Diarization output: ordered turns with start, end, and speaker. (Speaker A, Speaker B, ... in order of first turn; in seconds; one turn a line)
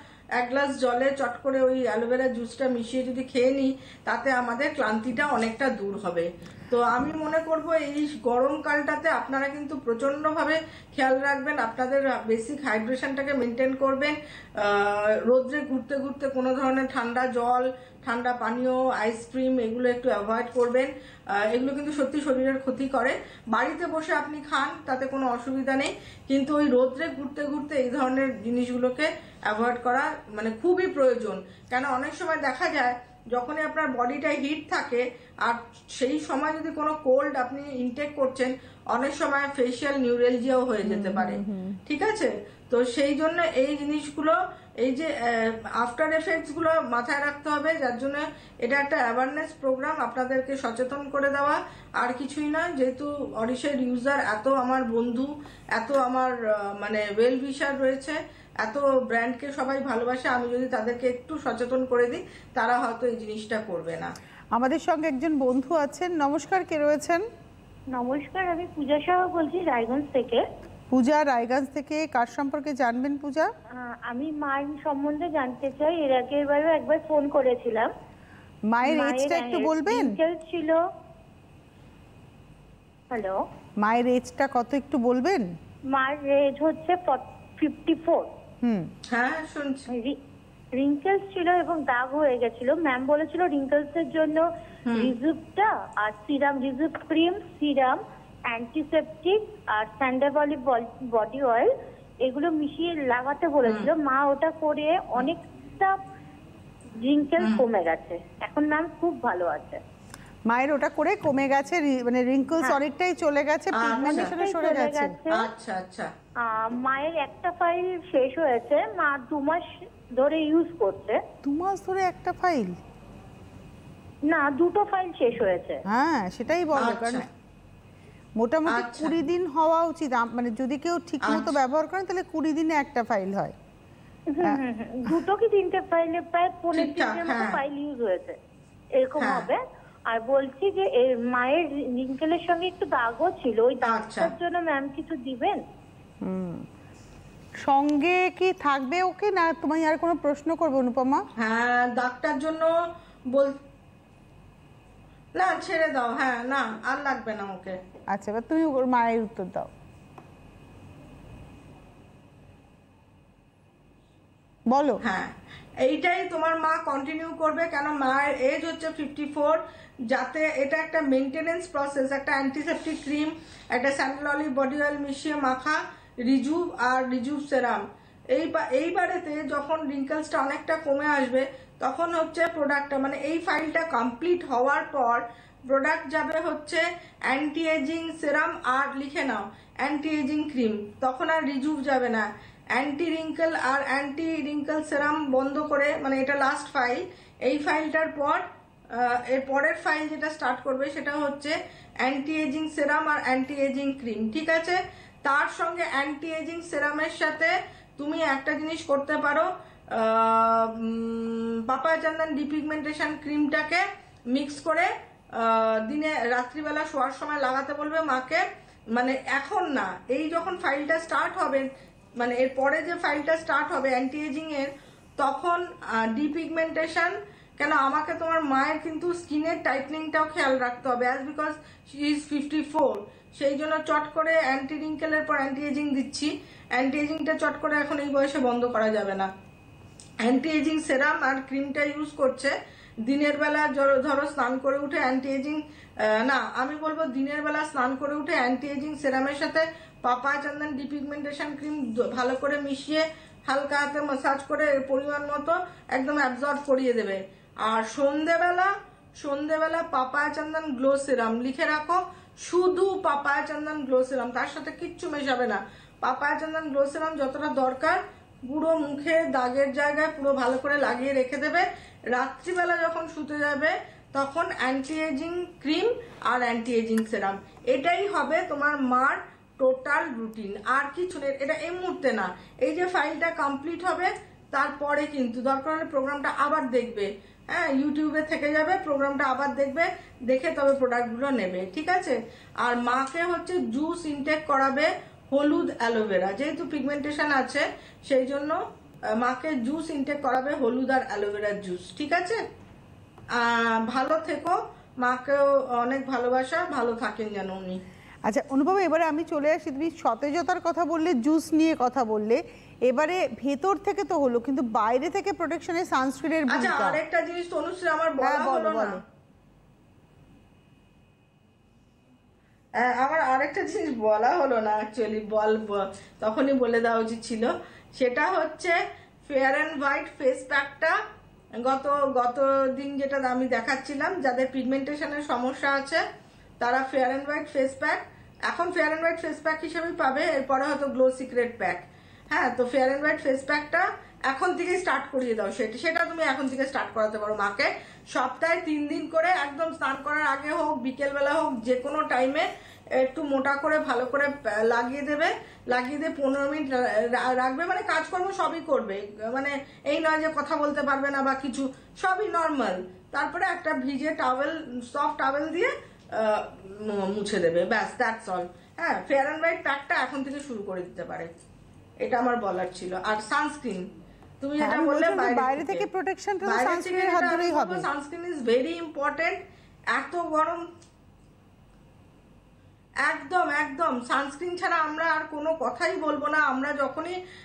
Speaker A: 0.4-64.1
Speaker B: 40.8-41.8
Speaker B: 64.5-67.2
Speaker C: 67.9-70.4
Speaker B: 70.9-73.5
Speaker C: 73.8-77.9
Speaker B: 78.7-80.1
Speaker C: 78.8-80.8
Speaker C: 83.1-83.4
Speaker B: 83.8-85.5
Speaker C: 85.9-88.3
Speaker B: 88.6-88.9
Speaker A: 89.1-89.9
Speaker C: 89.9-90.2
Speaker C: 90.7-101.7
Speaker A: 94.9-95.1
Speaker C: 102.2-106.0
Speaker C: 107.0-109.8
Speaker B: 110.5-115.2
Speaker A: 113.7-114.3
Speaker C: 114.0-115.5
Speaker A: 115.3-116.1
Speaker C: 116.4-121.2
Speaker B: 121.4-122.8
Speaker C: 124.2-125.8
Speaker B: 125.9-127.2
Speaker A: 126.8-127.2
Speaker B: 128.4-133.5
Speaker A: 128.7-129.1
Speaker A: 131.2-131.6
Speaker C: 134.3-138.4
Speaker A: 136.7-137.6
Speaker C: 139.0-145.6
Speaker A: 139.2-139.5
Speaker A: 143.8-144.3
Speaker B: 146.2-146.7
Speaker B: 147.6-151.2
Speaker A: 151.4-152.7
Speaker A: 153.3-153.6
Speaker A: 155.4-157.8
Speaker B: 158.1-159.7
Speaker B: 164.7-165.0
Speaker A: 165.0-218.4
Speaker A: 219.0-221.7
Speaker A: 222.2-239.3
Speaker A: 240.2-242.5
Speaker A: 243.1-298.6
Speaker A: 299.2-302.4
Speaker A: 303.3-307.8
Speaker B: 308.2-317.0
Speaker A: 316.5-319.0
Speaker B: 318.2-319.0
Speaker A: 322.8-328.8
Speaker A: 329.3-331.0
Speaker A: 331.6-336.0
Speaker A: 336.6-371.3
Speaker A: 372.0-373.8
Speaker A: 374.4-375.9
Speaker B: 374.6-377.9
Speaker A: 376.4-379.4
Speaker A: 379.9-380.6
Speaker A: 383.0-387.1